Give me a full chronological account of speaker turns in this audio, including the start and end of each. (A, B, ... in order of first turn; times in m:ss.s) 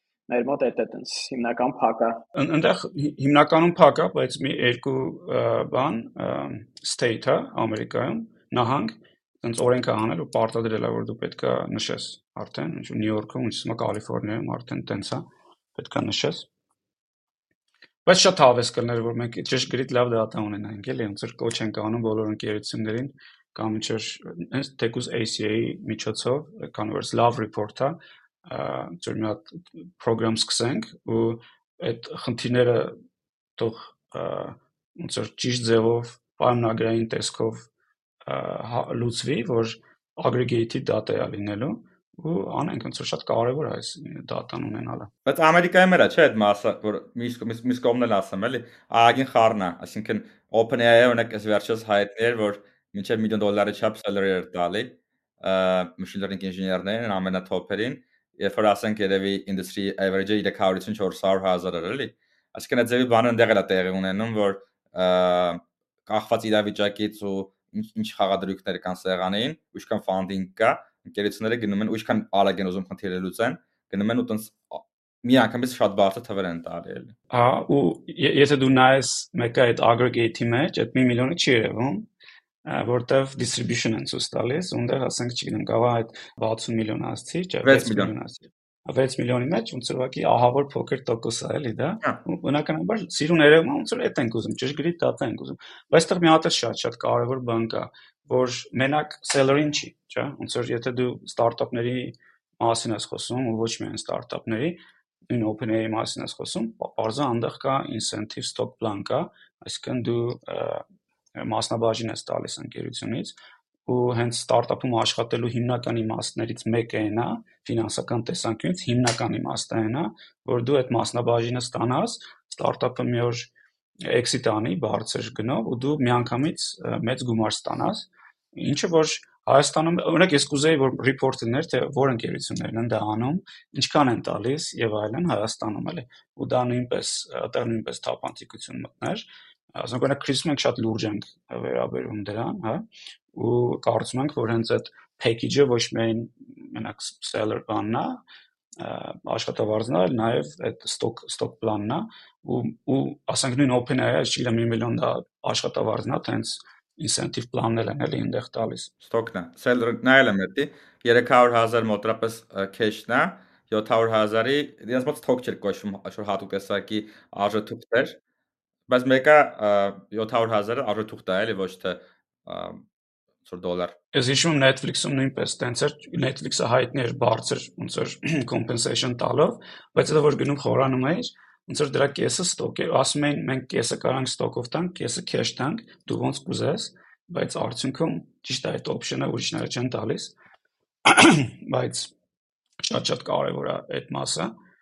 0:00.3-0:02.2 A
0:02.4-0:16.5 B
0:18.1-0:33.0 B
0:33.6-0:37.7 B
0:38.3-0:45.1 B
0:45.3-1:17.2 C
1:17.3-1:22.1 B
1:22.6-1:44.8 B
1:27.6-1:28.1 C
1:45.3-1:50.8 B
1:51.4-1:53.4 B
1:53.9-2:03.5 B
2:04.1-2:28.2 B
2:28.8-2:38.9 B
2:39.0-2:48.2 C
2:48.9-2:52.9 C
2:53.4-2:54.0 C
2:54.1-3:10.4 B
3:11.1-3:12.1 B
3:12.8-3:14.5 B